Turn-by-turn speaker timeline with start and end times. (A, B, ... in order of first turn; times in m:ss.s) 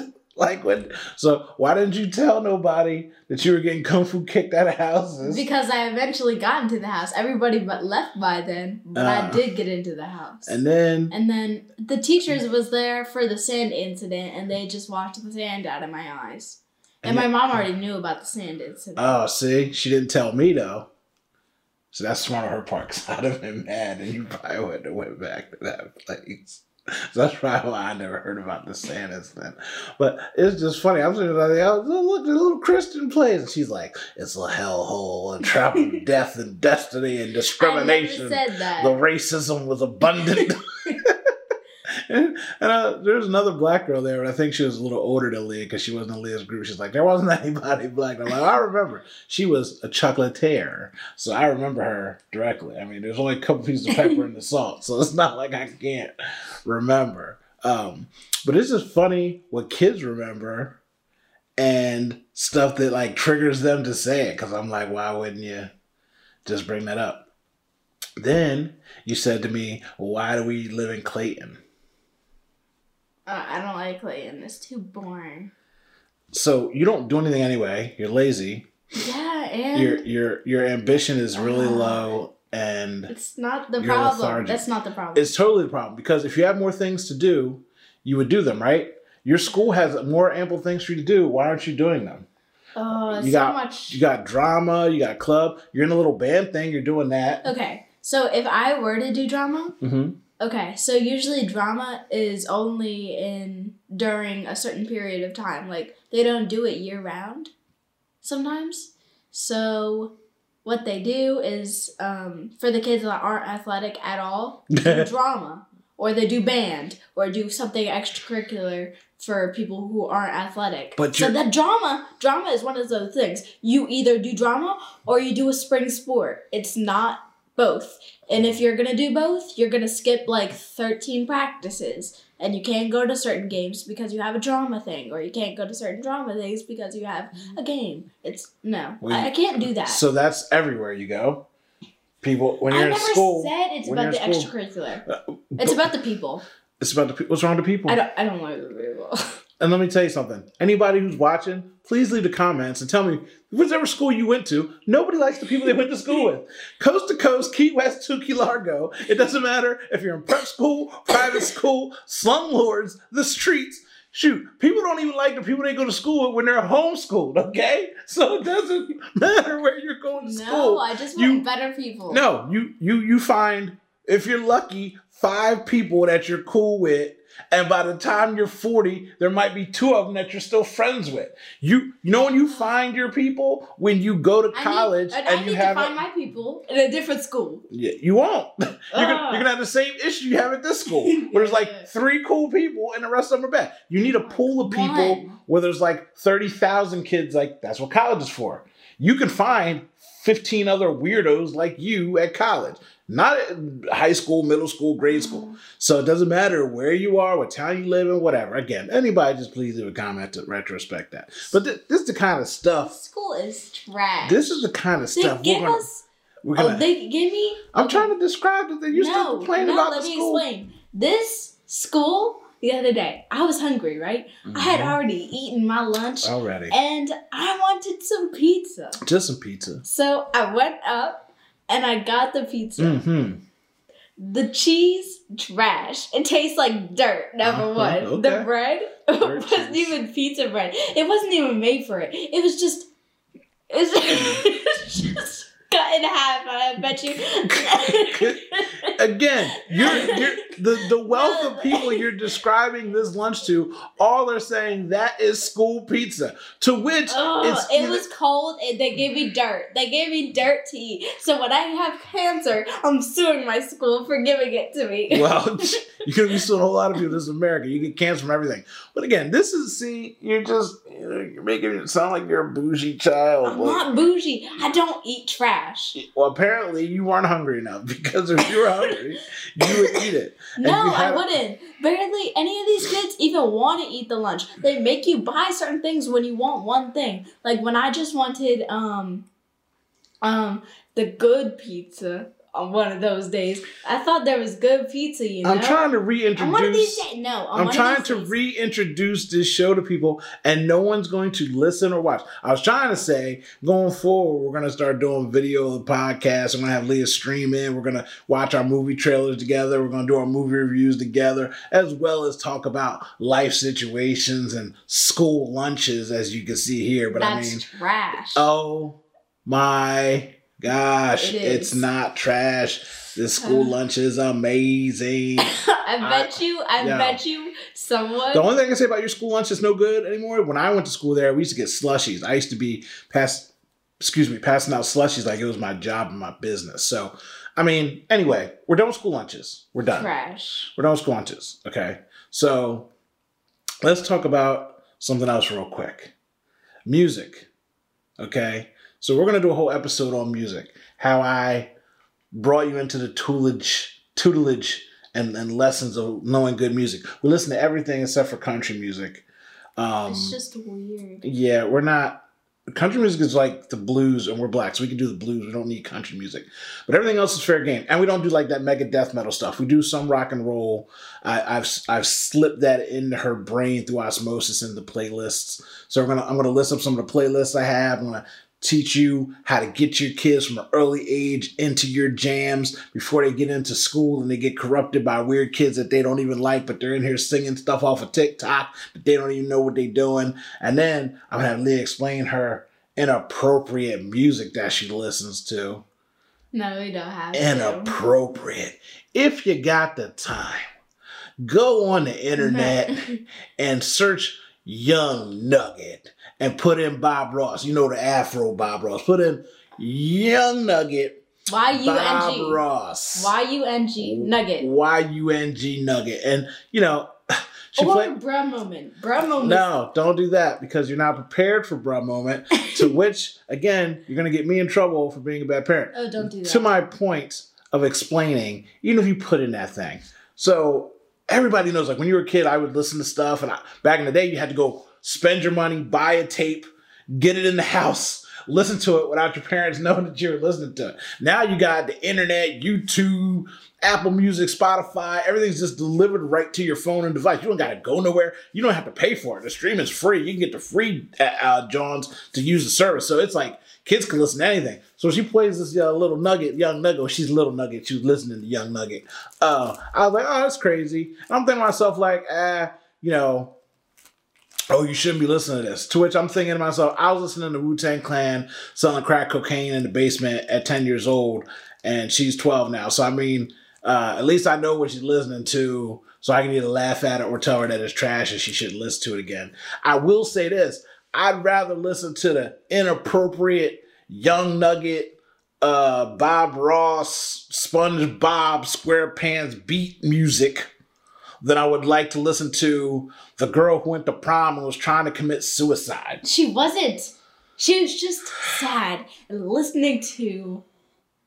0:00.3-0:05.5 A
0:05.2-0:19.2 B
0:08.9-0:09.4 A
0:10.4-0:11.1 A
0:17.0-0:17.6 A
0:19.0-0:20.9 A
0:21.9-0:41.3 A
0:37.6-0:39.0 B
0:40.4-0:41.0 B
0:42.1-0:56.1 A
0:56.6-1:00.8 A
1:01.6-1:05.7 A
1:06.4-1:07.3 A
1:08.2-1:11.6 A
1:13.3-1:15.5 B
1:16.3-1:18.7 A
1:18.9-1:20.0 B
1:19.7-1:23.1 A
1:21.3-1:22.1 B
1:23.1-1:25.3 B
1:23.8-1:24.6 A
1:25.1-1:32.3 A
1:32.8-1:34.0 B
1:33.1-1:37.5 A
1:37.4-1:39.7 B
1:39.8-1:40.2 A
1:40.4-1:47.5 B
1:48.2-2:20.0 B
1:54.8-1:55.1 A
2:01.0-2:01.4 A
2:19.0-2:21.4 A
2:22.2-2:24.5 A
2:22.7-2:25.0 B
2:25.1-2:25.9 A
2:25.6-2:26.4 B
2:26.8-2:28.0 A
2:27.9-2:29.2 B
2:29.6-2:51.4 A
2:50.1-2:52.2 B
2:52.1-3:06.0 A
3:04.5-3:07.6 B
3:07.7-3:32.9 A
3:08.9-3:09.4 B
3:10.9-3:11.9 B
3:14.2-3:15.4 B
3:25.1-3:25.6 B
3:32.9-3:36.0 B
3:34.2-3:35.8 A
3:36.4-3:36.9 A
3:36.6-3:38.1 B
3:37.7-3:40.4 A
3:38.9-3:49.0 B
3:44.4-3:45.0 A
3:46.2-3:46.7 A
3:49.0-3:49.8 A
3:49.8-3:53.0 B
3:52.8-3:53.4 A
3:54.2-4:02.9 B
3:57.4-3:58.5 A
3:59.2-3:59.9 A
4:03.7-4:08.9 B
4:07.4-4:18.0 A
4:09.5-4:12.0 B
4:17.1-4:25.7 B
4:25.1-4:33.9 A
4:33.4-4:36.0 B
4:35.9-4:41.3 A
4:38.6-4:39.0 B
4:39.6-4:40.0 B
4:40.6-4:49.2 B
4:50.2-4:58.3 B
4:55.4-5:17.6 A
5:17.1-5:18.5 B
5:18.3-5:27.2 A
5:21.2-5:21.8 B
5:23.4-5:23.7 B
5:25.4-5:28.4 B
5:28.3-5:40.1 A
5:40.0-5:40.7 B
5:40.7-5:42.9 A
5:43.8-5:46.1 A
5:46.8-5:47.5 A
5:48.2-5:51.7 A
5:52.3-5:59.2 A
5:59.8-6:00.4 A
6:00.0-6:01.2 B
6:01.2-6:35.8 A
6:36.5-6:38.0 B
6:37.3-6:40.7 A
6:41.4-6:42.9 A
6:42.4-6:43.2 B
6:43.6-6:53.3 A
6:51.5-6:52.6 B
6:53.1-6:54.6 B
6:54.0-6:57.1 A
6:57.7-6:58.1 A
6:57.8-6:59.7 B
6:59.4-7:43.5 A
7:02.6-7:02.9 B
7:05.9-7:06.7 B
7:44.7-8:10.7 A
8:11.4-8:16.2 A
8:16.2-8:20.6 B